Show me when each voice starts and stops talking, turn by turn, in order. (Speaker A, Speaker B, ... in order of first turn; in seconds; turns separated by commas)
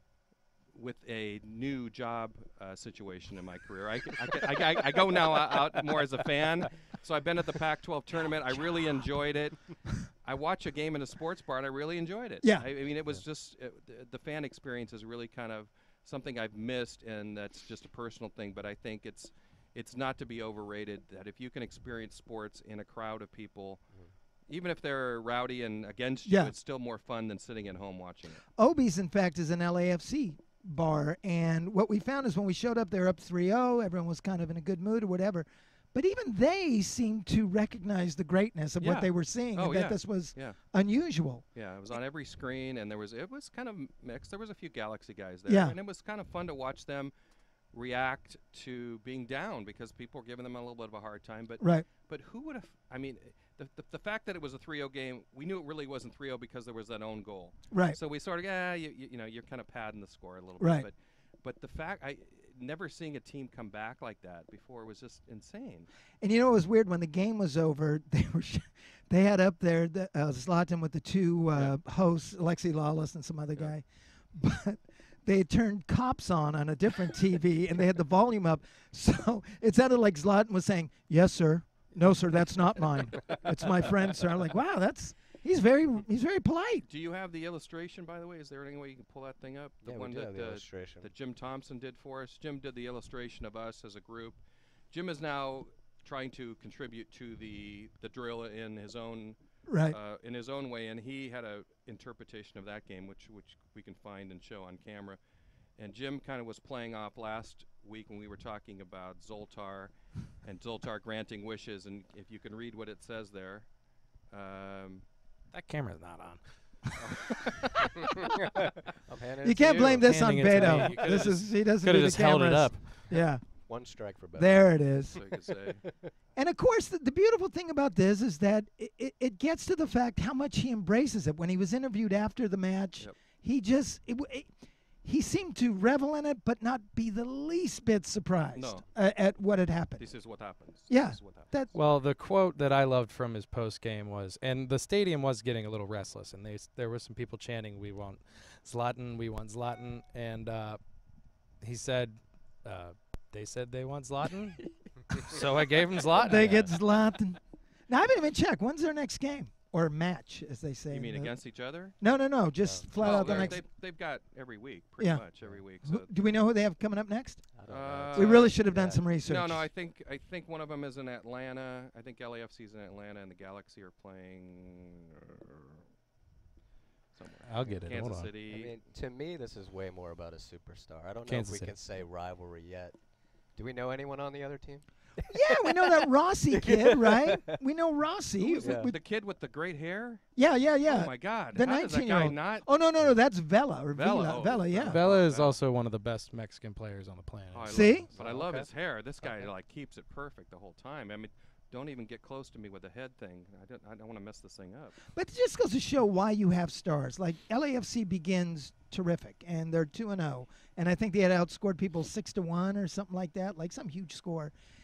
Speaker A: 0.7-23.8, Speaker B: 5.5-5.8, Speaker A: 24.5-28.4, Speaker C: 26.3-26.5, Speaker C: 28.6-41.4, Speaker A: 38.8-40.6, Speaker A: 41.5-47.1, Speaker C: 45.5-45.8, Speaker A: 47.7-65.9, Speaker C: 51.6-51.9, Speaker C: 57.7-58.0, Speaker C: 60.6-60.9, Speaker C: 66.2-86.8, Speaker A: 86.9-105.2, Speaker B: 89.8-91.1, Speaker C: 99.7-100.0, Speaker A: 105.8-113.7, Speaker A: 114.3-115.0, Speaker D: 115.5-118.0, Speaker A: 117.0-117.2, Speaker B: 119.0-121.4, Speaker C: 119.4-123.7, Speaker D: 120.0-123.1, Speaker B: 123.1-125.2, Speaker C: 124.3-125.2, Speaker A: 125.1-125.8, Speaker B: 125.8-126.1, Speaker C: 126.4-134.5, Speaker C: 135.0-140.0, Speaker A: 138.6-138.9, Speaker A: 140.0-141.5, Speaker C: 140.9-141.7, Speaker D: 141.7-150.8, Speaker D: 151.6-156.6, Speaker B: 156.2-156.8, Speaker C: 156.2-161.3, Speaker A: 160.9-162.0, Speaker C: 162.0-163.6, Speaker B: 162.6-163.6, Speaker A: 163.0-166.3, Speaker C: 165.8-167.5, Speaker B: 167.5-169.1, Speaker A: 167.7-168.6, Speaker C: 168.1-169.7, Speaker A: 169.2-175.8, Speaker A: 177.1-178.8, Speaker D: 177.4-178.3, Speaker B: 178.5-183.0, Speaker D: 181.3-181.7, Speaker B: 183.5-187.6, Speaker C: 185.3-189.0, Speaker A: 188.4-190.3, Speaker B: 188.6-188.9, Speaker C: 190.4-195.0, Speaker A: 190.9-192.7, Speaker A: 193.9-195.6, Speaker D: 194.8-197.9, Speaker A: 197.5-205.0, Speaker C: 197.7-198.1, Speaker B: 198.2-198.7, Speaker B: 199.2-199.5, Speaker C: 205.1-214.5